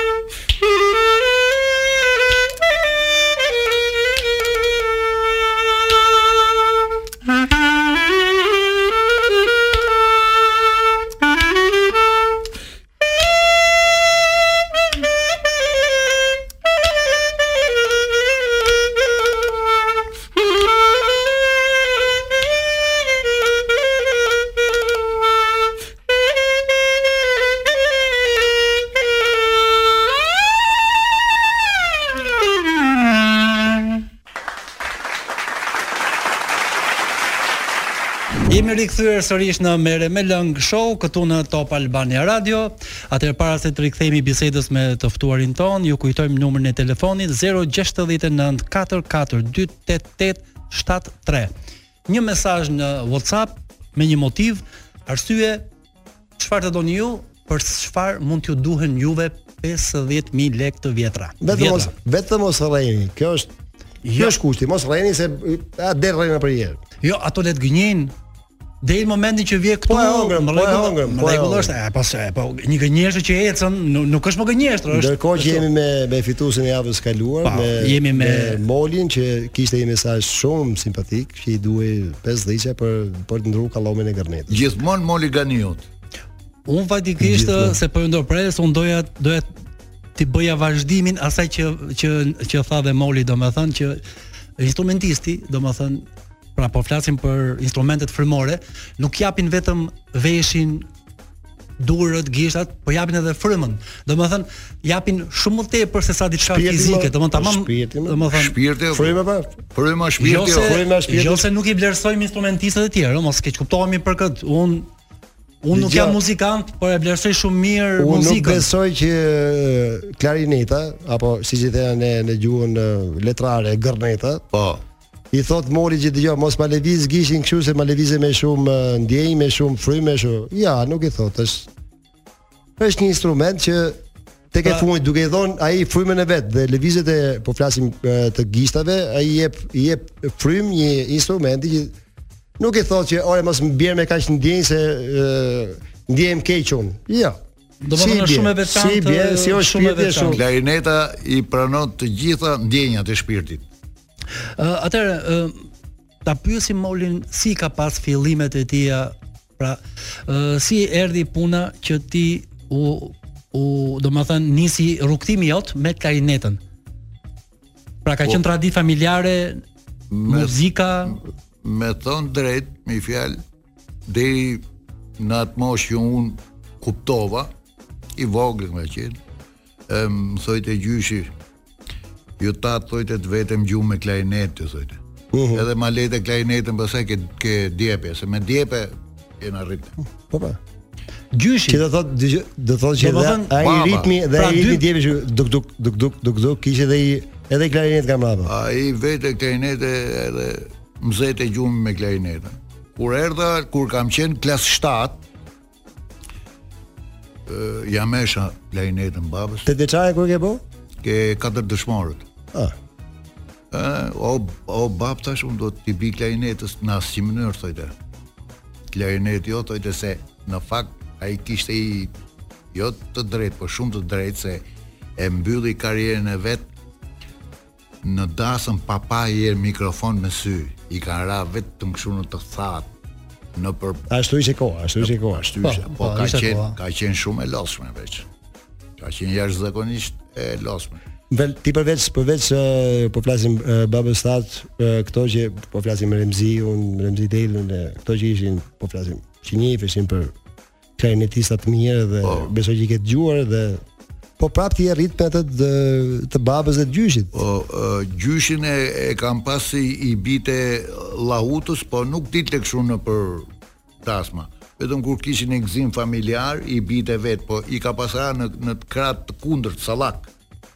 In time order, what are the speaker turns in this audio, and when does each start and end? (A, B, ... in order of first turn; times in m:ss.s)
0:38.5-0:51.5 A
0:52.1-0:55.6 A
0:56.4-1:01.9 A
1:01.4-1:03.5 B
1:04.0-1:04.4 A
1:04.1-1:06.8 B
1:07.0-1:08.1 A
1:08.8-1:15.6 A
1:09.8-1:11.7 B
1:14.9-1:24.6 B
1:17.4-1:18.6 A
1:24.5-1:25.9 C
1:26.6-1:29.5 A
1:27.2-1:27.8 B
1:30.2-1:34.0 A
1:34.6-1:40.9 A
1:41.8-1:48.5 A
1:46.4-1:48.2 B
1:48.3-1:49.2 C
1:48.9-1:49.5 B
1:49.7-1:50.8 C
1:50.2-1:54.9 A
1:50.4-1:51.4 B
1:55.6-1:58.7 A
1:55.7-1:56.2 B
1:58.0-2:04.4 B
2:04.5-2:04.8 C
2:05.3-2:11.7 B
2:12.8-2:14.0 B
2:14.5-2:21.9 B
2:22.6-2:27.4 B
2:27.8-2:30.4 A
2:27.9-2:30.4 B
2:30.3-2:33.6 C
2:34.6-2:35.6 A
2:36.2-2:46.6 A
2:48.0-2:49.6 A
2:50.1-2:53.4 C
2:50.3-2:51.2 A
2:54.1-2:54.6 C
2:55.2-2:57.5 C
2:58.2-2:59.2 C
2:59.9-3:01.3 C
3:02.4-3:05.0 C
3:05.3-3:05.6 B
3:05.5-3:10.0 C
3:10.3-3:10.6 B
3:11.3-3:11.8 A
3:11.7-3:18.5 B
3:13.0-3:13.6 A
3:13.6-3:14.1 C
3:14.3-3:14.8 A
3:18.4-3:25.2 C
3:27.5-3:29.7 C
3:29.6-3:30.6 B
3:31.0-3:32.2 C
3:33.7-3:37.9 C
3:38.9-3:42.1 C
3:42.7-3:44.6 C
3:45.2-3:46.7 C
3:48.0-3:52.9 C
3:53.5-3:54.0 C
3:54.1-3:55.6 B
3:55.0-3:58.3 C
3:55.6-3:56.8 A
3:59.0-4:01.0 C
4:01.3-4:10.3 B
4:11.0-4:13.8 B
4:12.2-4:12.5 C
4:14.4-4:17.4 B
4:17.3-4:23.5 C
4:24.0-4:30.3 C